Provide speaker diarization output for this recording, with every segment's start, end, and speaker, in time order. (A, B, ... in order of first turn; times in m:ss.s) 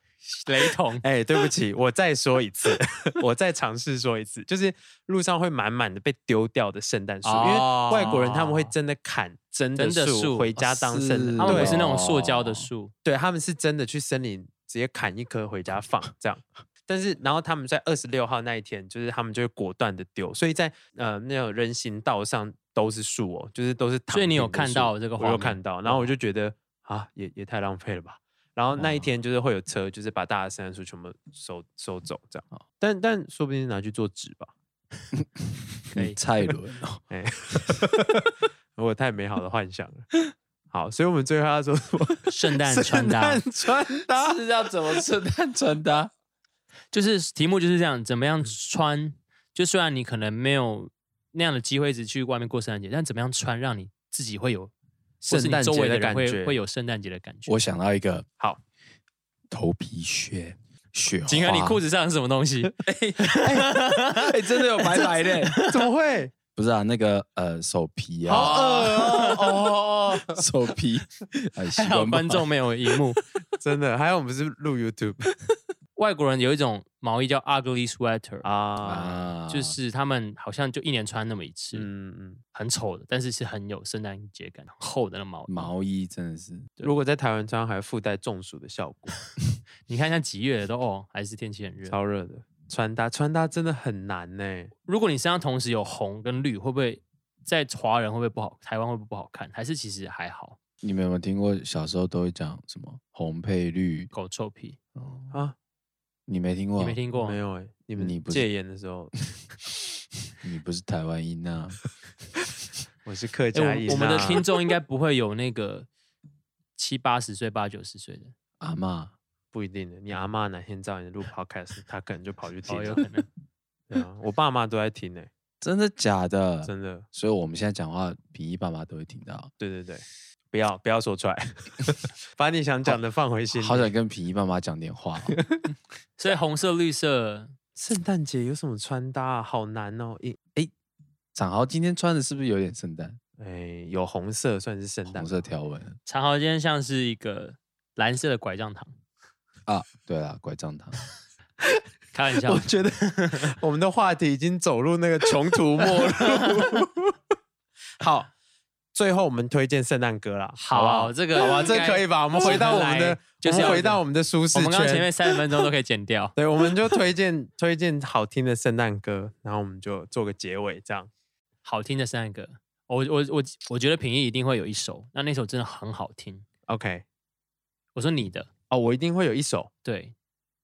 0:00.4-0:01.0 A
0:01.0-0:11.8 B
0:07.2-0:08.7 A
0:09.8-0:10.5 A
0:10.6-0:12.7 C
0:11.4-0:12.9 A
0:13.0-0:34.5 B
0:24.1-0:26.1 A
0:28.8-0:29.1 C
0:35.2-0:37.1 C
0:35.9-0:36.2 A
0:37.1-0:38.2 B
0:38.8-0:40.2 B
0:40.7-0:44.4 B
0:42.3-0:43.4 A
0:44.1-0:46.1 C
0:46.9-0:54.7 A
0:55.2-0:56.6 B
0:55.2-0:57.6 A
0:57.5-0:58.3 C
0:59.5-1:01.8 C
1:01.3-1:05.8 A
1:04.2-1:05.6 C
1:05.6-1:06.3 B
1:06.6-1:13.0 C
1:08.3-1:10.4 B
1:08.3-1:09.4 A
1:11.7-1:13.2 A
1:13.6-1:15.2 B
1:16.0-1:18.5 A
1:18.4-1:19.3 B
1:18.8-1:19.8 C
1:19.5-1:21.9 A
1:21.7-1:22.4 B
1:22.5-1:25.7 A
1:25.5-1:26.7 C
1:26.8-1:29.2 B
1:29.9-1:32.0 A
1:31.9-1:34.7 B
1:34.9-1:40.6 A
1:40.8-1:44.1 C
1:44.1-1:44.8 A
1:45.0-1:45.4 C
1:46.3-1:47.0 C
1:46.8-1:47.4 A
1:47.1-1:49.3 B
1:48.0-1:48.5 C
1:50.4-1:51.8 C
1:53.0-1:54.4 B
1:53.5-1:55.9 A
1:56.8-1:58.3 A
1:58.6-1:59.1 C
1:59.5-2:03.1 B
2:02.7-2:03.3 A
2:03.9-2:05.3 B
2:05.6-2:09.5 C
2:06.6-2:07.1 B
2:09.6-2:13.9 B
2:13.5-2:15.4 C
2:15.3-2:15.6 B
2:16.2-2:17.5 A
2:17.8-2:20.4 B
2:21.4-2:23.2 C
2:23.4-2:25.4 B
2:25.1-2:26.0 C
2:26.1-2:28.9 A
2:29.7-2:31.0 C
2:32.1-2:33.6 A
2:32.5-2:37.1 B
2:36.1-2:36.4 A
2:38.0-2:38.3 B
2:38.9-2:45.4 B
2:40.6-2:44.0 A
2:44.5-2:46.4 A
2:46.4-2:51.1 B
2:51.6-2:56.4 A
2:56.7-2:57.0 B
2:58.0-2:58.5 A
2:58.7-2:59.7 B
2:59.8-3:00.2 A